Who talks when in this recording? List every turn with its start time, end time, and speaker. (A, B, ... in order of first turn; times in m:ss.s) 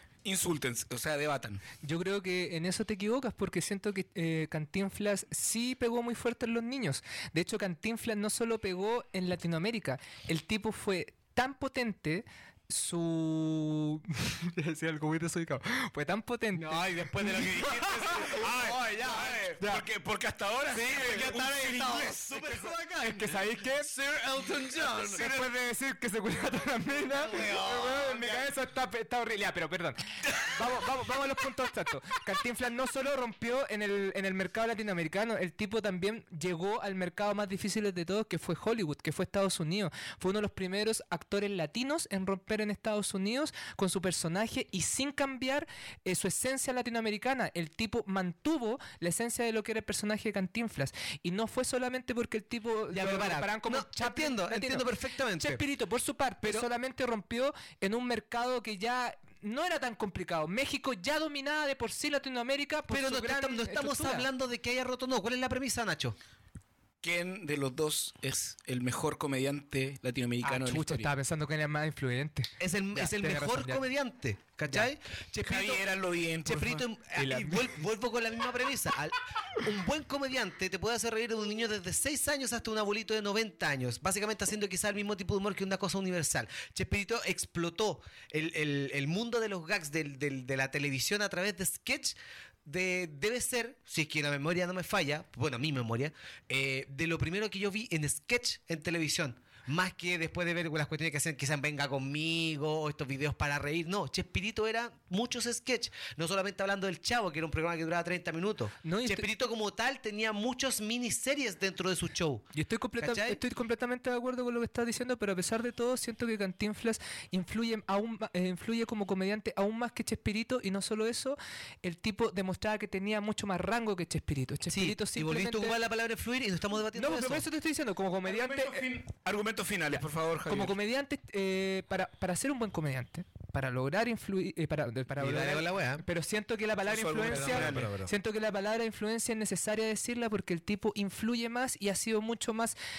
0:00.2-0:01.6 A
0:01.8-0:18.4 B
0:16.5-0:19.4 C
0:18.3-0:22.3 A
0:20.7-0:25.4 C
0:23.0-0:23.9 B
0:25.0-0:25.5 A
0:25.1-0:54.9 B
0:27.0-0:28.4 C
0:52.9-0:55.6 C
0:55.4-1:04.3 B
0:56.4-0:56.7 C
1:02.9-1:06.2 C
1:07.0-1:11.1 A
1:10.4-1:13.8 B
1:12.6-1:15.8 C
1:15.5-1:16.8 A
1:16.4-1:53.4 C
1:17.2-1:17.7 B
1:48.8-1:49.3 B
1:52.5-2:05.8 B
2:04.7-2:07.4 C
2:06.9-2:08.8 B
2:08.2-2:10.8 A
2:10.5-2:22.8 B
2:15.2-2:16.0 C
2:16.9-2:17.9 A
2:17.3-2:18.1 C